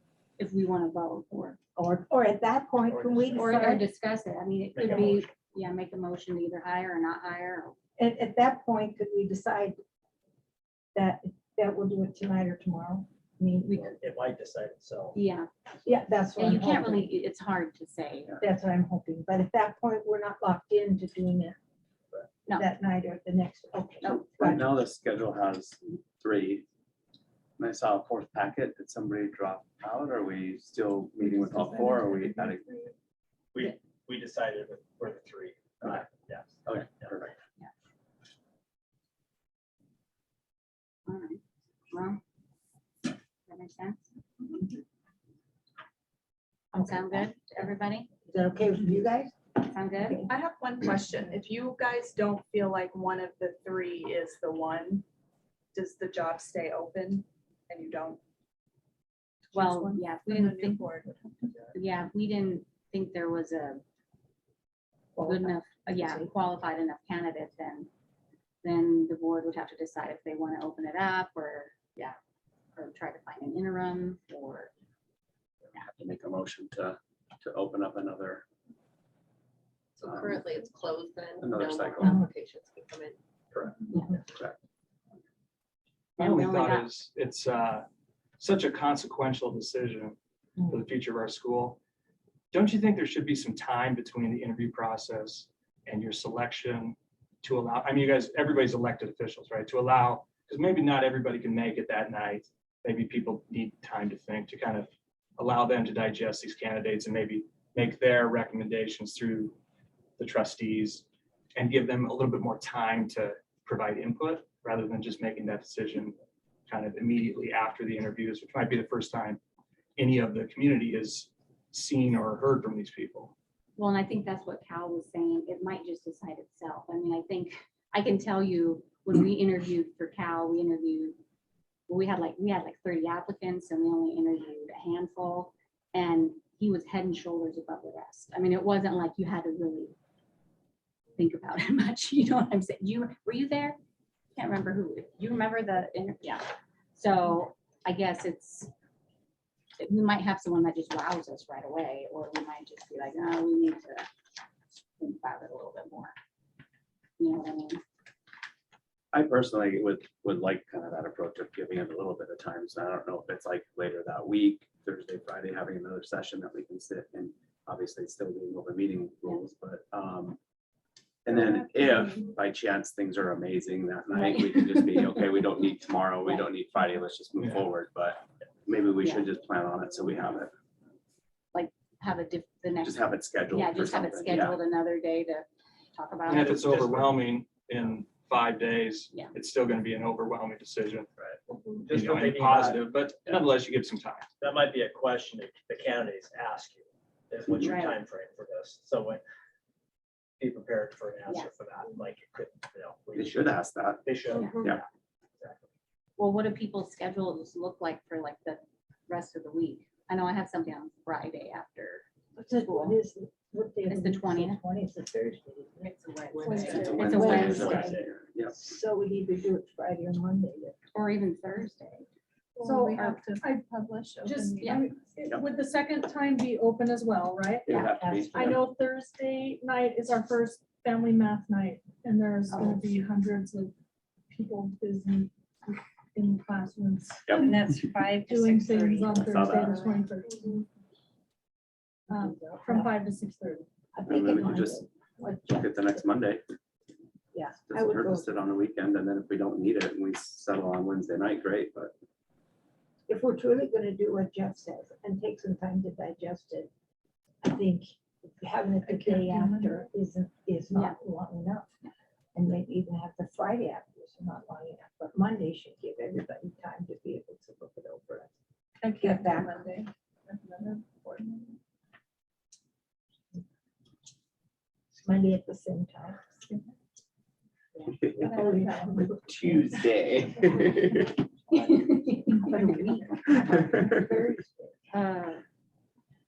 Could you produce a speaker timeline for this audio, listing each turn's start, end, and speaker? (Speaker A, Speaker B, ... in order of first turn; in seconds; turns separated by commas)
Speaker A: 0.4-1.6, Speaker B: 1.8-3.8, Speaker C: 2.9-3.7, Speaker A: 3.3-7.8, Speaker C: 4.7-5.3, Speaker B: 4.8-5.1, Speaker B: 8.0-9.8, Speaker B: 10.9-13.9, Speaker C: 14.0-15.2, Speaker A: 15.1-15.5, Speaker B: 15.8-17.1, Speaker A: 16.4-18.4, Speaker B: 18.4-21.6, Speaker B: 22.5-24.7, Speaker D: 24.1-26.6, Speaker D: 27.6-32.7, Speaker C: 33.5-37.3, Speaker D: 36.6-37.3, Speaker A: 41.1-41.4, Speaker A: 41.9-42.2, Speaker A: 43.5-44.0, Speaker A: 46.7-48.1, Speaker B: 46.8-47.3, Speaker B: 48.3-49.4, Speaker A: 49.5-50.3, Speaker B: 50.0-50.3, Speaker E: 50.2-55.0, Speaker E: 55.7-58.2, Speaker E: 59.5-61.7, Speaker A: 59.5-60.9, Speaker A: 61.7-63.8, Speaker B: 65.2-66.3, Speaker A: 65.2-67.9, Speaker A: 68.6-72.2, Speaker A: 72.7-74.7, Speaker D: 75.7-78.4, Speaker F: 80.0-83.2, Speaker D: 80.0-80.4, Speaker D: 81.4-82.2, Speaker D: 84.3-84.6, Speaker G: 86.2-87.8, Speaker A: 86.2-86.9, Speaker G: 88.4-91.8, Speaker G: 92.5-109.6, Speaker G: 110.2-111.0, Speaker G: 111.5-116.1, Speaker G: 116.7-119.4, Speaker G: 120.0-123.3, Speaker A: 123.8-131.2, Speaker A: 131.9-139.9, Speaker A: 141.2-143.8, Speaker A: 144.3-148.7, Speaker A: 149.8-154.1, Speaker A: 155.0-156.1, Speaker A: 157.2-157.8, Speaker D: 159.1-170.4, Speaker D: 171.2-180.5, Speaker G: 177.4-177.6, Speaker A: 179.0-179.3, Speaker A: 181.5-186.7, Speaker D: 182.8-184.6, Speaker G: 186.3-191.1, Speaker C: 186.5-187.2, Speaker C: 191.2-193.3, Speaker G: 191.9-194.3, Speaker C: 194.4-199.2, Speaker A: 197.6-198.0, Speaker C: 200.4-204.6, Speaker A: 201.3-201.5, Speaker D: 203.1-204.0, Speaker A: 204.3-204.6, Speaker C: 205.4-205.7, Speaker A: 206.2-213.0, Speaker B: 212.3-215.9, Speaker A: 213.9-214.6, Speaker A: 215.8-217.9, Speaker H: 216.4-217.7, Speaker B: 216.6-220.8, Speaker D: 216.7-218.5, Speaker A: 220.9-222.1, Speaker H: 222.6-227.7, Speaker E: 222.6-223.0, Speaker A: 222.8-223.4, Speaker E: 223.7-224.7, Speaker D: 227.7-228.6, Speaker A: 227.7-227.9, Speaker B: 227.9-228.5, Speaker H: 228.3-233.7, Speaker A: 232.5-232.8, Speaker H: 234.3-240.7, Speaker E: 237.4-240.0, Speaker D: 239.2-239.9, Speaker H: 242.1-243.7, Speaker B: 242.1-242.9, Speaker B: 243.9-246.0, Speaker D: 244.1-244.8, Speaker D: 245.5-246.4, Speaker B: 247.3-248.5, Speaker D: 247.7-251.9, Speaker B: 253.1-256.7, Speaker B: 257.4-261.7, Speaker H: 258.9-259.8, Speaker B: 262.3-268.3, Speaker E: 268.8-271.6, Speaker B: 269.0-269.7, Speaker B: 275.0-276.4, Speaker B: 277.8-279.6, Speaker D: 278.0-278.6, Speaker H: 278.4-278.7, Speaker D: 279.1-281.2, Speaker A: 281.6-282.9, Speaker B: 282.2-284.7, Speaker A: 284.9-285.4